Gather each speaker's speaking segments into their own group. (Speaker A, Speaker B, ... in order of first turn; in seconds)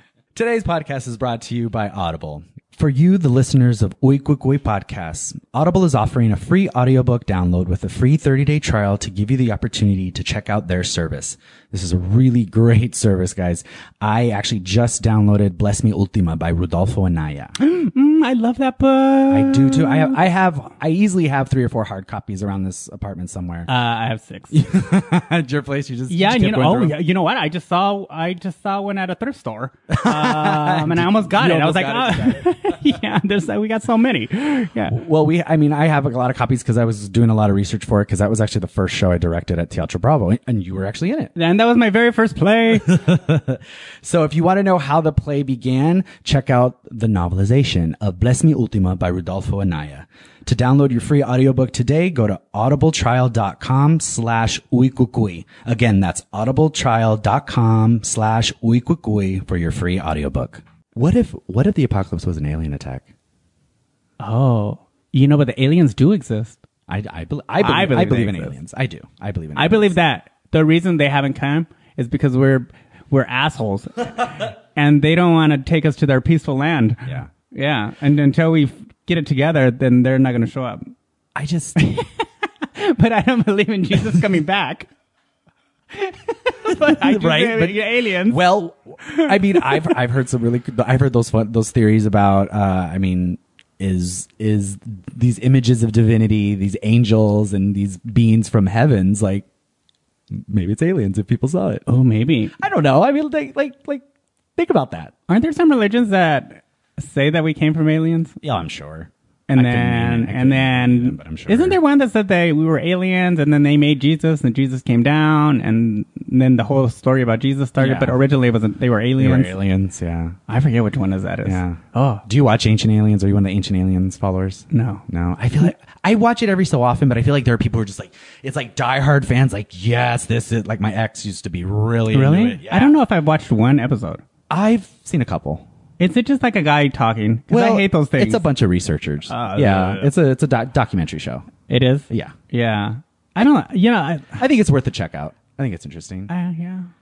Speaker A: 0.3-17.6, 19.3-23.7, 24.5-27.0, 29.9-33.0, 34.9-41.3, 42.8-63.1, 66.9-70.0, 81.3-81.8, 86.6-99.5, 100.3-101.8, 102.6-104.0, 104.5-105.1, 108.4-111.8, 117.8-118.2, 119.2-120.4, 121.4-133.0, 134.5-135.7, 137.5-141.5, 142.1-142.3, 144.3-146.3
Speaker B: 17.6-20.2, 23.7-24.6, 26.1-35.0, 41.3-43.0, 64.2-66.6, 67.6-68.5, 69.5-80.9, 81.8-84.9, 85.9-88.4, 89.0-90.0, 101.9-102.5, 105.3-108.3, 109.5-119.5, 120.5-122.2, 124.7-125.0, 132.1-134.2, 136.0-138.4, 139.3-140.1, 141.7-144.4, 146.3-146.9